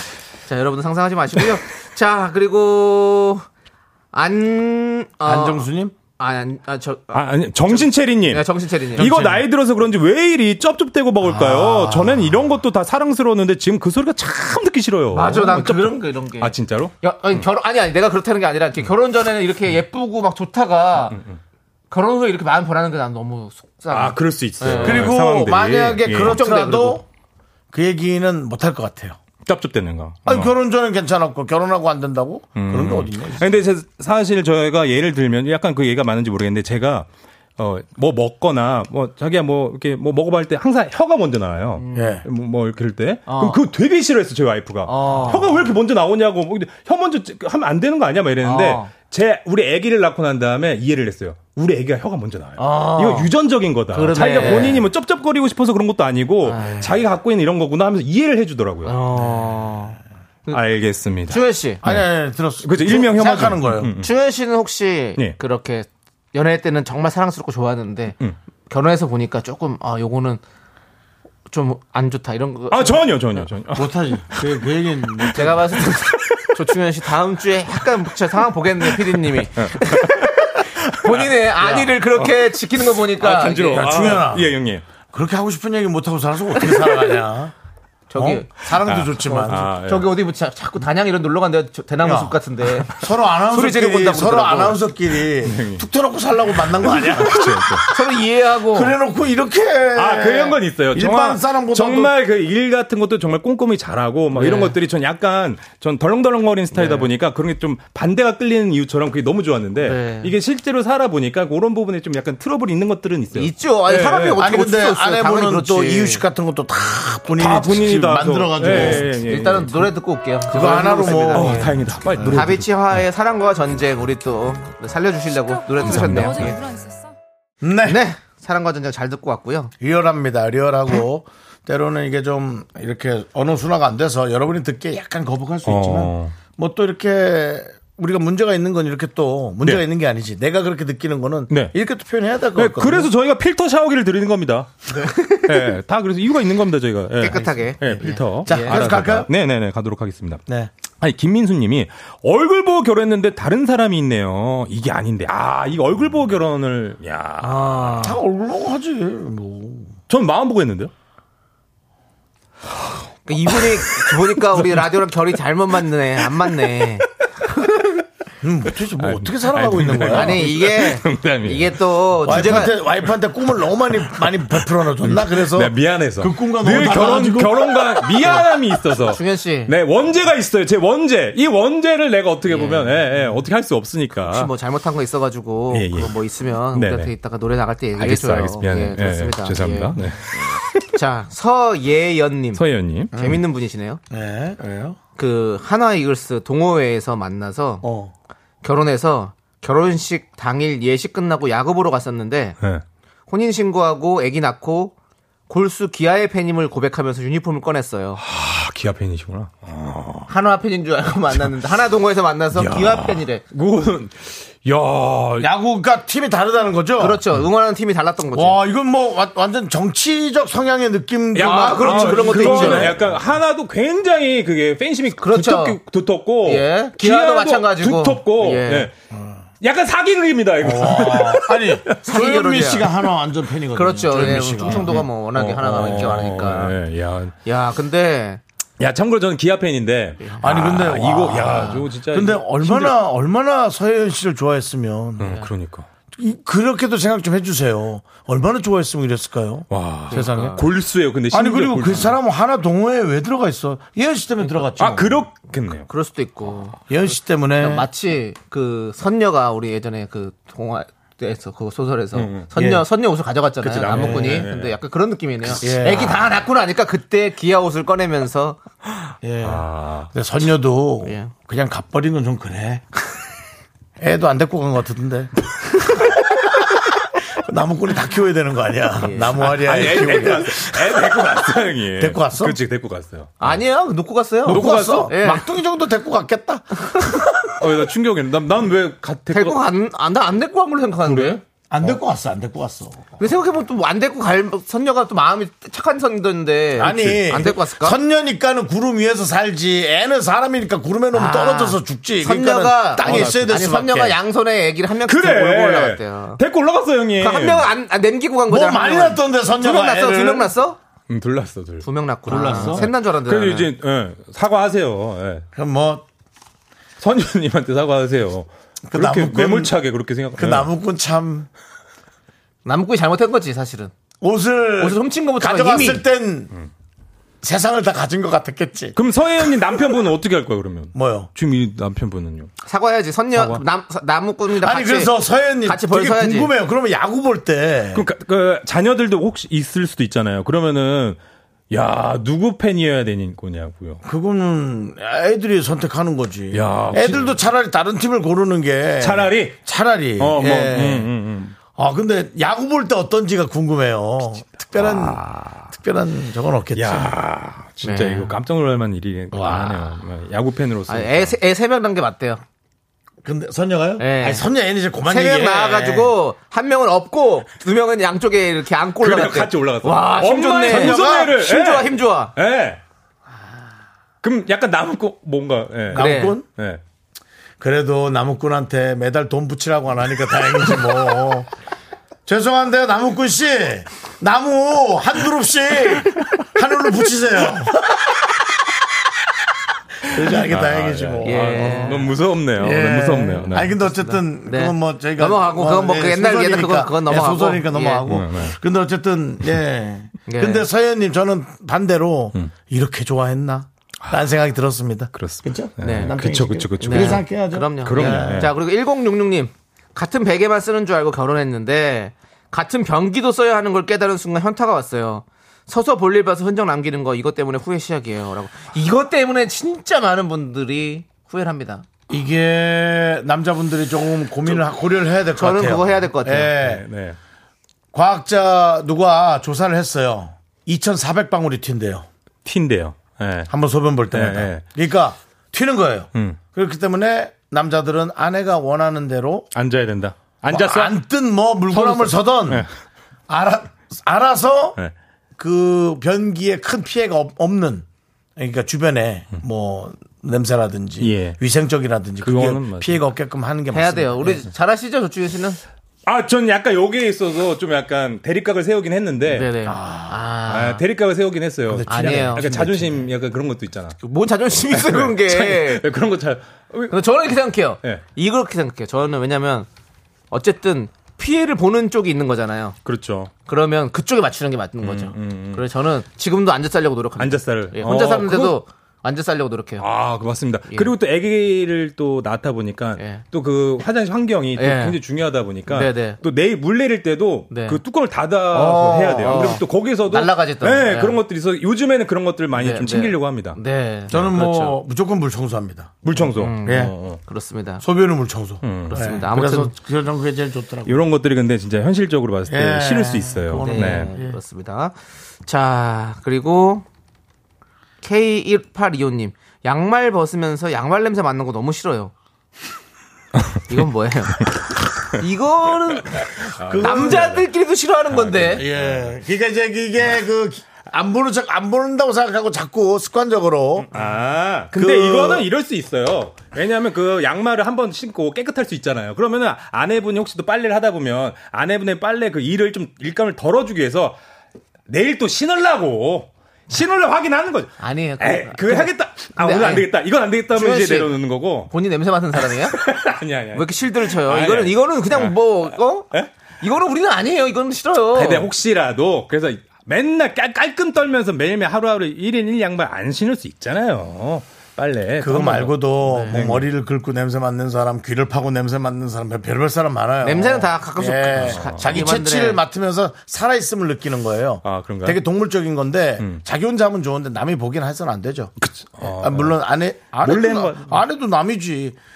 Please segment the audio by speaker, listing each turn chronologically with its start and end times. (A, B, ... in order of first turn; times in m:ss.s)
0:00.5-0:03.4 A
0:04.1-0:09.3 A
0:05.2-0:06.0 B
0:07.1-0:16.9 C
0:09.0-0:09.4 B
0:11.2-0:12.4 B
0:15.1-0:21.2 A
0:21.1-0:21.4 C
0:21.9-0:25.2 A
0:23.9-0:26.4 C
0:24.8-0:27.0 B
0:26.1-0:27.0 A
0:27.7-0:29.2 B
0:29.4-0:30.5 C
0:30.3-0:33.6 B
0:32.6-0:59.0 C
0:41.8-0:42.2 A
0:41.9-0:42.3 B
0:43.3-0:43.6 A
0:44.9-0:45.6 A
0:48.4-0:48.9 A
0:52.6-0:53.3 A
0:53.9-0:54.8 A
0:56.4-0:57.0 A
0:58.8-1:00.6 A
1:00.5-1:02.0 C
1:01.3-1:01.8 A
1:01.8-1:03.9 B
1:02.6-1:04.1 C
1:04.0-1:08.2 A
1:08.7-1:10.4 A
1:11.5-1:13.1 A
1:12.7-1:14.6 C
1:13.8-1:15.6 B
1:15.2-1:16.0 C
1:15.3-1:24.2 A
1:18.8-1:24.8 C
1:23.7-1:24.6 B
1:25.1-1:27.5 B
1:28.1-1:28.7 A
1:28.2-1:29.7 B
1:28.8-1:30.2 C
1:29.2-1:34.8 A
1:32.0-1:32.4 B
1:32.9-1:37.8 B
1:35.4-1:35.8 C
1:36.8-1:37.9 C
1:37.9-1:38.9 A
1:38.7-1:42.1 B
1:40.0-1:54.4 C
1:44.3-1:44.8 A
1:46.7-1:47.1 A
1:49.8-1:50.3 A
1:53.3-1:56.2 A
1:54.4-1:59.1 B
1:57.4-1:59.9 C
1:58.7-2:01.7 A
2:00.5-2:01.8 B
2:01.3-2:02.7 C
2:02.2-2:06.7 A
2:05.8-2:06.7 C
2:07.6-2:08.0 B
2:07.8-2:09.7 A
2:09.8-2:23.1 B
2:15.6-2:16.4 C
2:21.5-2:21.8 C
2:22.6-2:24.7 C
2:24.9-2:25.8 A
2:25.5-2:30.4 C
2:27.2-2:28.9 A
2:28.4-2:29.3 B
2:31.0-2:38.0 C
2:37.4-2:38.2 A
2:38.0-2:39.9 B
2:40.1-2:40.9 C
2:43.3-2:47.9 A
2:43.4-2:44.8 C
2:46.4-2:46.7 C
2:48.4-2:50.5 B
2:49.0-2:51.8 C
2:50.1-2:52.8 A
2:52.3-2:58.3 B
2:55.0-3:04.5 C
2:58.9-2:59.7 A
3:02.5-3:03.4 A
3:04.2-3:10.0 A
3:05.7-3:06.1 C
3:06.7-3:07.1 C
3:08.0-3:10.6 C
3:10.8-3:14.0 A
3:12.6-3:13.4 C
3:14.1-3:15.0 B
3:15.2-3:17.8 A
3:17.8-3:18.1 B
3:18.6-3:22.6 A
3:23.3-3:24.9 A
3:25.5-3:28.2 A
3:28.2-3:30.3 C
3:30.3-3:33.4 A
3:32.5-3:35.5 C
3:35.4-3:37.2 B
3:37.0-3:38.6 A
3:38.3-3:43.1 B
3:41.4-3:48.9 C
3:41.4-3:43.0 A
3:45.2-3:45.8 A
3:46.4-3:48.9 A
3:49.6-3:52.0 C
3:50.6-3:55.0 B
3:52.0-3:52.9 A
3:53.8-3:56.8 A
3:54.2-3:57.3 C
3:57.4-3:58.4 A
3:58.8-4:03.0 C
4:00.2-4:00.6 A
4:00.4-4:05.4 B
4:05.2-4:05.9 C
4:06.1-4:10.6 B
4:09.7-4:12.2 C
4:10.1-4:10.6 A
4:11.3-4:15.2 B
4:14.8-4:15.9 C
4:15.9-4:16.8 A
4:16.9-4:17.9 B
4:17.6-4:28.6 A
4:22.1-4:22.5 C
4:22.6-4:22.8 B
4:23.6-4:24.8 C
4:23.8-4:24.5 B
4:25.6-4:26.2 B
4:29.2-4:32.8 B
4:29.4-4:30.1 C
4:31.0-4:31.3 A
4:34.0-4:35.3 B
4:37.4-4:41.4 B
4:39.0-4:40.3 A
4:39.5-4:43.6 C
4:42.0-4:42.6 B
4:43.4-4:45.5 A
4:44.4-4:45.1 C
4:44.4-4:46.8 B
4:47.6-4:49.6 C
4:49.3-4:51.4 A
4:51.0-4:51.4 C
4:51.7-4:53.2 B
4:53.2-4:58.0 A
4:56.8-5:04.2 B
4:56.8-4:57.3 C
5:01.1-5:06.4 A
5:03.0-5:03.6 C
5:05.1-5:07.7 C
5:07.2-5:10.8 A
5:08.5-5:10.5 B
5:11.1-5:15.5 C
5:11.8-5:13.7 A
5:12.3-5:12.9 B
5:15.5-5:16.1 B
5:17.0-5:20.7 C
5:18.9-5:19.8 B
5:20.4-5:21.5 B
5:22.6-5:23.9 A
5:24.2-5:26.5 B
5:24.8-5:26.0 A
5:27.4-5:29.0 B
5:29.0-5:32.5 C
5:30.9-5:31.3 B
5:32.6-5:36.5 A
5:33.3-5:33.6 C
5:34.6-5:38.0 B
5:37.9-5:41.2 C
5:41.7-5:44.0 C
5:44.0-5:51.1 B
5:46.5-5:47.4 C
5:49.0-5:49.6 C
5:50.2-5:51.6 C
5:51.7-5:57.1 B
5:54.8-5:55.7 C
5:56.8-6:01.3 C
5:57.8-5:58.3 A
5:59.3-5:59.9 B
6:00.9-6:02.4 A
6:03.2-6:06.1 B
6:04.0-6:04.5 A
6:05.0-6:12.3 A
6:09.0-6:12.8 C
6:10.7-6:11.3 B
6:14.2-6:16.8 C
6:15.9-6:16.5 B
6:15.9-6:16.4 A
6:17.6-6:21.5 B
6:22.3-6:28.0 B
6:30.1-6:48.5 B
6:30.2-6:33.8 C
6:31.2-6:32.1 A
6:34.0-6:38.0 A
6:38.1-6:38.5 C
6:40.3-6:40.7 A
6:45.1-6:48.5 C
6:45.8-6:46.2 A
6:46.8-7:01.8 A
7:02.1-7:06.8 B
7:05.4-7:06.6 A
7:06.6-7:07.2 C
7:07.9-7:12.1 B
7:12.4-7:13.5 C
7:13.5-7:19.5 B
7:14.1-7:14.7 C
7:16.1-7:16.4 C
7:19.5-7:21.0 C
7:20.5-7:22.7 B
7:21.7-7:22.7 C
7:23.3-7:24.8 B
7:25.4-7:27.8 B
7:28.4-7:34.4 B
7:31.0-7:31.4 C
7:32.2-7:33.0 C
7:33.7-7:35.6 A
7:36.0-7:39.5 C
7:39.3-7:40.8 A
7:39.7-7:40.2 B
7:40.5-7:44.0 C
7:41.7-7:43.1 B
7:41.9-7:42.7 A
7:44.0-7:45.8 A
7:44.7-7:47.0 C
7:46.9-7:49.7 A
7:50.3-7:52.8 A
7:52.8-7:53.3 C
7:53.5-7:59.9 A
7:54.8-7:55.6 C
7:57.2-7:58.6 C
7:59.8-8:13.6 C
8:00.7-8:00.9 A
8:03.0-8:03.2 A
8:04.6-8:05.0 A
8:05.7-8:06.2 A
8:07.5-8:07.8 A
8:08.5-8:11.2 A
8:08.6-8:09.6 B
8:12.6-8:14.8 A
8:14.1-8:16.1 B
8:16.0-8:17.2 C
8:16.4-8:17.8 A
8:16.6-8:16.9 B
8:17.8-8:21.0 B
8:18.6-8:19.1 C
8:18.9-8:19.7 A
8:20.9-8:24.1 C
8:22.5-8:24.4 B
8:23.5-8:24.9 A
8:25.5-8:26.8 A
8:28.0-8:32.1 A
8:33.7-8:34.5 A
8:35.1-8:38.7 A
8:36.5-8:37.5 C
8:36.6-8:37.3 B
8:38.1-8:39.1 C
8:38.5-8:44.0 B
8:43.8-8:54.2 C
8:44.7-8:45.5 B
8:54.9-9:01.7 C
8:57.8-8:59.9 A
9:00.5-9:01.1 A
9:01.7-9:02.8 A
9:02.6-9:05.4 C
9:03.5-9:08.5 A
9:08.1-9:15.9 C
9:15.2-9:32.0 B
9:16.0-9:16.6 A
9:20.2-9:22.6 A
9:21.4-9:21.8 C
9:24.6-9:25.2 C
9:28.6-9:29.6 C
9:30.2-9:31.0 C